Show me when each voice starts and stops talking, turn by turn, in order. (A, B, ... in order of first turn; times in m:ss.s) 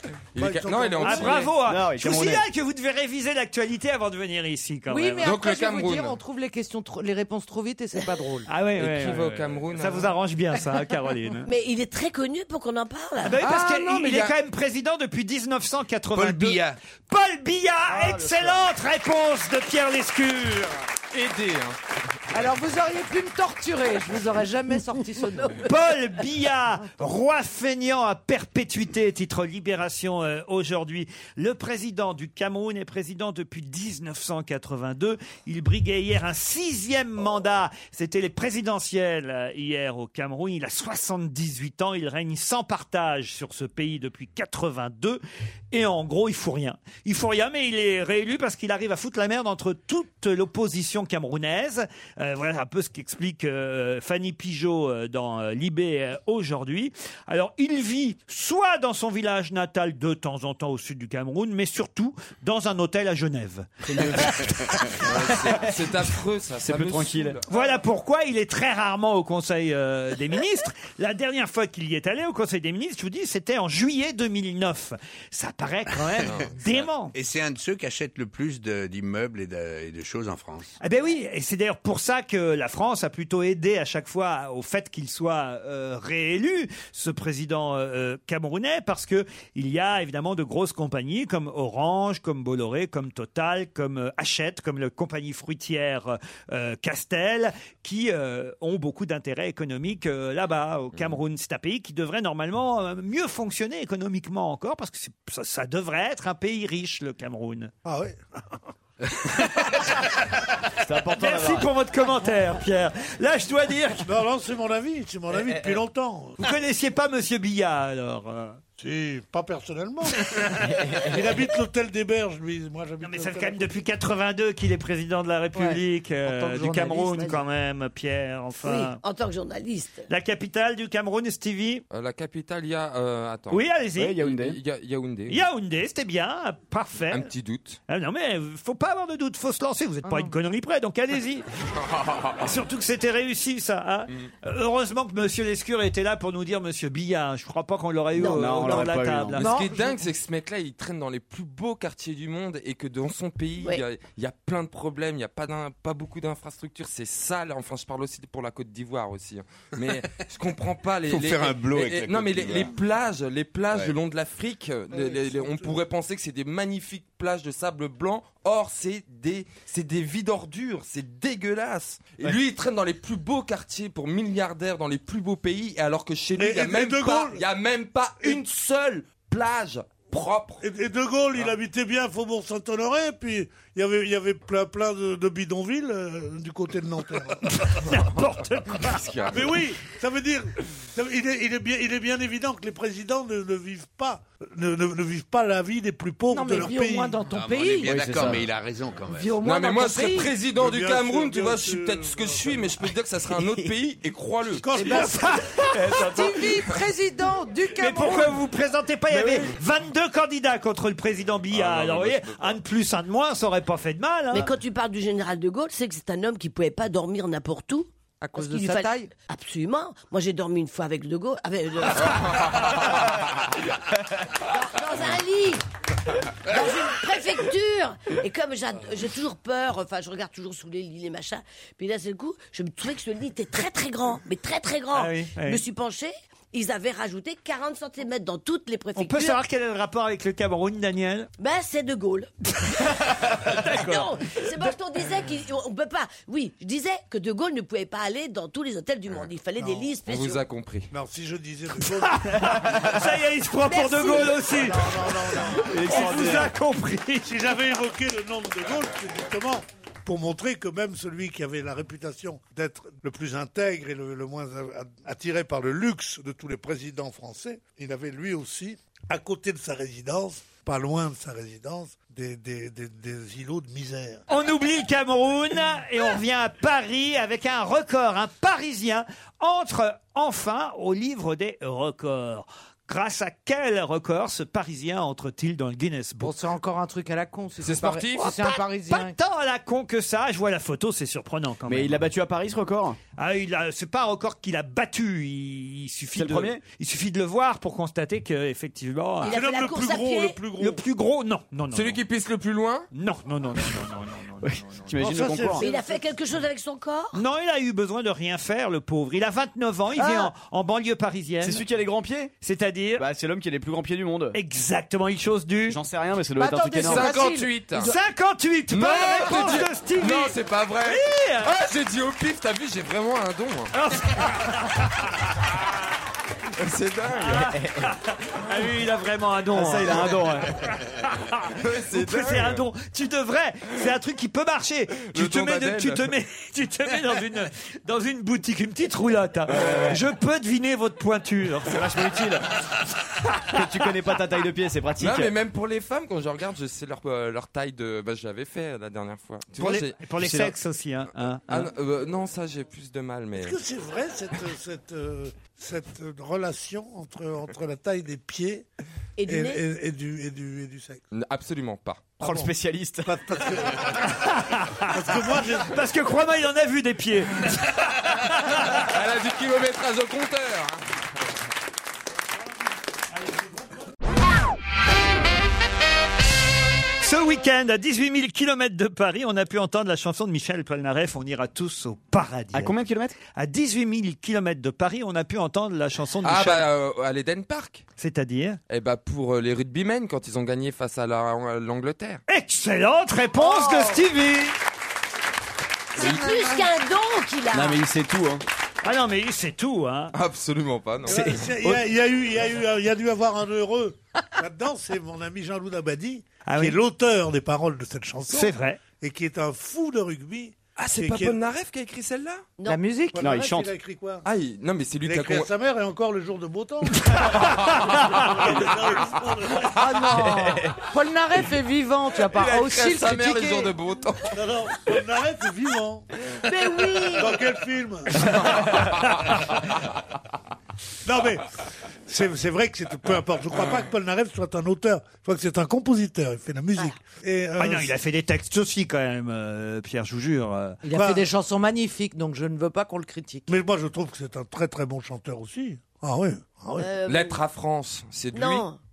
0:00.4-0:01.6 A
0:00.4-0:01.5 B
0:01.0-0:05.3 C
0:01.6-0:02.4 D
0:04.9-0:08.5 E
0:05.2-0:06.2 A
0:08.5-0:11.5 C
0:08.8-0:10.1 A
0:11.5-0:13.4 F
0:13.2-0:20.8 C
0:13.4-0:14.3 A
0:16.1-0:16.8 G
0:18.0-0:18.5 D
0:21.1-0:21.8 A
0:22.3-0:25.6 E
0:25.6-1:04.9 C
1:03.8-1:05.5 D
1:05.0-1:07.6 A
1:06.6-1:07.4 D
1:07.5-1:17.1 C
1:16.2-1:16.9 A
1:17.1-1:20.7 G
1:20.8-1:47.7 C
1:47.8-1:48.2 B
1:50.8-1:51.7 D
1:51.1-1:54.1 C
1:54.0-1:56.4 B
1:56.4-1:58.6 C
1:58.8-2:00.4 B
2:01.0-2:03.7 B
2:03.0-2:09.0 C
2:05.6-2:07.4 E
2:08.6-2:10.1 F
2:10.1-2:11.8 C
2:11.9-2:15.4 A
2:13.5-2:14.2 C
2:14.0-2:14.6 D
2:15.3-2:17.3 C
2:17.1-2:17.8 A
2:17.9-2:21.5 C
2:20.0-2:20.3 E
2:21.9-2:22.4 A
2:22.4-2:29.5 C
2:28.1-2:28.9 F
2:28.2-2:29.5 D
2:29.4-3:00.6 A
2:29.4-2:30.1 E
2:41.1-2:42.8 G
2:44.9-2:45.7 B
2:56.4-2:57.4 B
3:00.6-3:07.4 B
3:07.6-3:09.2 C
3:08.8-3:09.5 A
3:09.3-3:17.2 B
3:16.3-3:18.0 E
3:17.3-3:19.4 G
3:17.9-3:18.4 D
3:19.1-3:20.3 E
3:19.4-3:24.7 A
3:20.6-3:22.8 B
3:23.4-3:23.6 D
3:24.6-3:25.3 B
3:24.7-3:25.3 E
3:24.8-3:26.4 C
3:25.8-3:26.3 D
3:25.9-3:28.4 E
3:27.8-3:34.5 C
3:29.1-3:29.5 D
3:31.5-3:32.6 A
3:34.3-3:42.2 F
3:38.2-3:39.1 E
3:44.5-3:45.6 F
3:46.5-3:59.4 F
3:54.9-3:55.6 C
3:59.0-4:01.3 C
4:01.4-4:02.3 F
4:03.5-4:04.1 C
4:03.5-4:10.4 F
4:09.6-4:09.9 B
4:10.1-4:10.9 A
4:10.9-4:12.7 B
4:12.0-4:14.9 C
4:13.6-4:14.4 F
4:14.5-4:16.4 B
4:15.7-4:16.5 D
4:15.7-4:17.3 C
4:17.2-4:34.2 B
4:34.3-4:46.4 C
4:46.2-4:49.2 E
4:47.6-4:48.4 A
4:48.2-4:52.0 C
4:51.7-4:53.0 D
4:53.2-4:59.4 C
4:56.2-4:56.6 D
4:59.2-5:00.4 F
4:59.2-5:00.8 B
5:00.6-5:02.0 C
5:01.7-5:02.9 A
5:02.9-5:04.8 C
5:04.4-5:05.6 D
5:04.9-5:06.0 B
5:05.6-5:07.2 F
5:07.1-5:11.6 C
5:10.0-5:10.2 D
5:11.4-5:12.3 D
5:12.4-5:13.1 C
5:13.0-5:14.4 D
5:14.3-5:15.8 C
5:15.7-5:17.1 D
5:16.4-5:18.0 E
5:16.8-5:17.9 A
5:17.8-5:21.5 C
5:18.7-5:23.7 A
5:23.8-5:24.7 C
5:26.6-5:27.6 A
5:27.4-5:27.8 D
5:27.8-5:42.4 C
5:29.5-5:30.5 D
5:31.6-5:32.6 A
5:35.1-5:36.1 A
5:39.5-5:40.0 D
5:41.8-5:42.4 D
5:43.5-5:45.3 D
5:45.0-5:50.1 A
5:49.6-5:51.7 C
5:50.2-5:50.5 D
5:51.5-5:53.6 A
5:53.4-5:58.7 B
5:59.2-5:59.6 F
5:59.3-6:01.0 B
6:01.1-6:02.2 A
6:02.2-6:02.5 B
6:02.2-6:03.1 D
6:03.0-6:04.2 B
6:04.2-6:04.9 C
6:04.9-6:05.8 B
6:05.6-6:08.8 C
6:08.8-6:10.8 A
6:17.0-6:22.8 C
6:22.5-6:23.2 D
6:23.3-6:26.7 C
6:26.2-6:27.8 A
6:28.0-6:28.6 C
6:28.7-6:32.2 A
6:32.3-6:34.6 C
6:36.0-6:37.8 F
6:37.5-6:38.4 D
6:38.8-6:40.1 C
6:40.1-6:41.5 A
6:41.1-6:51.4 B
6:41.1-6:41.8 D
6:46.5-6:46.8 C
6:48.3-6:48.8 C
6:50.8-6:52.5 A
6:52.7-6:53.3 E
6:53.1-6:54.2 B
6:53.2-6:53.7 D
6:54.2-6:55.5 A
6:55.0-6:57.5 B
6:58.1-7:00.2 B
6:59.8-7:03.7 E
7:02.2-7:04.4 A
7:04.3-7:06.1 B
7:06.4-7:07.4 F
7:07.1-7:08.4 B
7:11.0-7:11.5 B
7:12.1-7:18.0 B
7:17.6-7:20.8 C
7:20.8-7:23.5 E
7:20.9-7:21.3 B
7:23.5-7:26.9 B
7:26.8-7:27.4 F
7:27.1-7:28.7 A
7:28.3-7:28.8 F